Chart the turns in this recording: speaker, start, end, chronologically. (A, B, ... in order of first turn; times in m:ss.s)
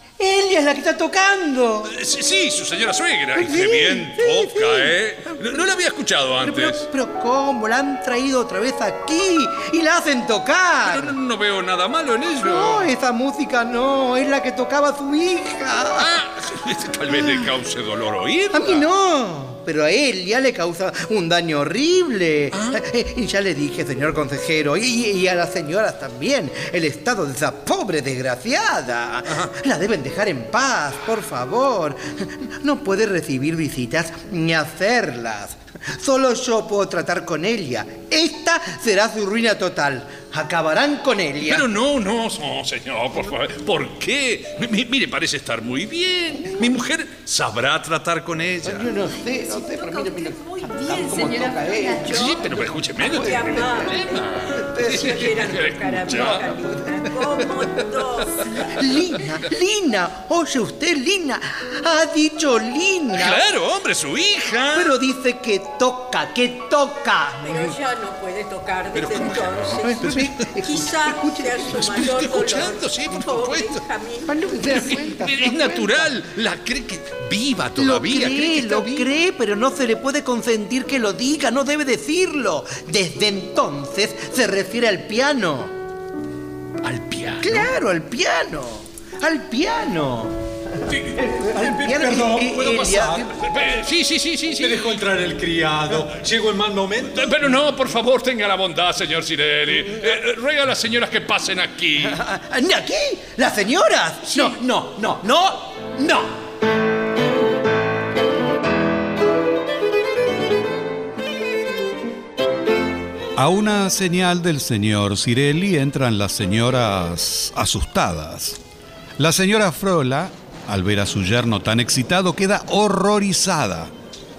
0:00.2-0:01.9 A
0:01.9-0:06.9 B
0:03.4-0:05.3 A
0:06.4-0:11.2 A
0:10.8-0:12.9 B
0:12.4-0:16.1 A
0:16.0-0:18.8 B
0:18.5-0:41.7 A
0:22.5-0:22.8 B
0:41.4-0:48.9 B
0:48.6-0:52.0 A
0:52.0-0:58.5 C
0:52.0-0:56.5 B
0:58.8-1:03.4 A
1:03.1-1:04.9 B
1:04.7-1:07.4 A
1:07.4-1:14.3 C
1:08.9-1:10.9 B
1:09.8-1:11.6 A
1:11.6-1:13.8 B
1:14.3-1:19.1 B
1:14.4-1:16.1 A
1:17.8-1:25.7 A
1:26.8-1:27.7 B
1:27.4-1:30.3 A
1:30.9-1:33.4 D
1:31.2-1:33.2 A
1:33.3-1:35.1 B
1:34.6-1:37.3 D
1:37.1-1:42.2 B
1:42.0-1:46.3 A
1:53.4-1:58.6 E
1:59.2-2:03.9 E